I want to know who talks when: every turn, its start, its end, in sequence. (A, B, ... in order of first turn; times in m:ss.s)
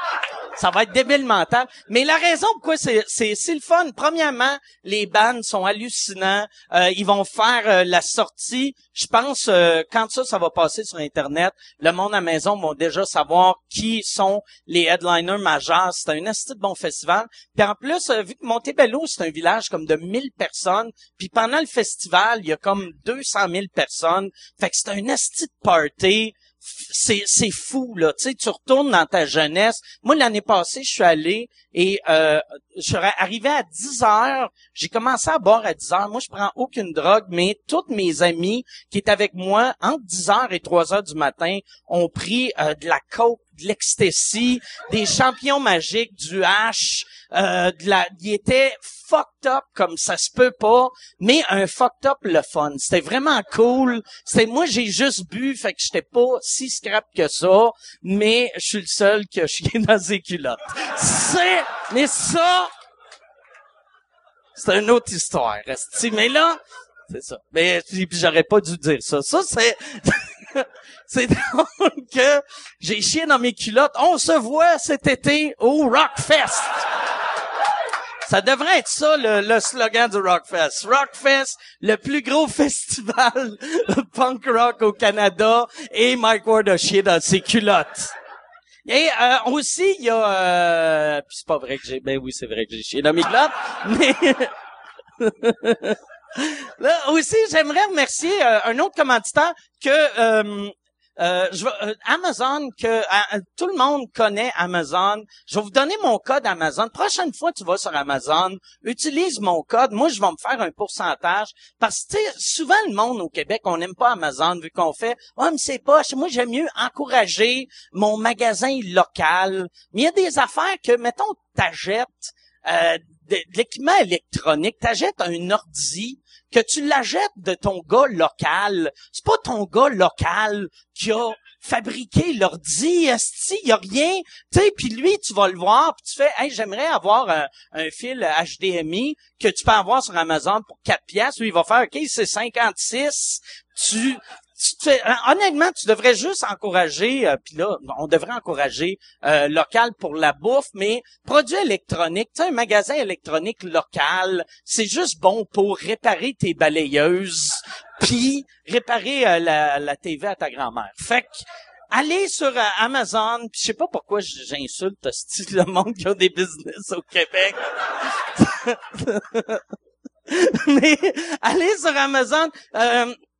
0:00.6-1:02.7 A
1:04.5-1:16.8 A
1:18.2-1:28.1 A
1:28.8-1:34.5 A
1:35.2-2:49.6 A
2:50.3-2:53.2 A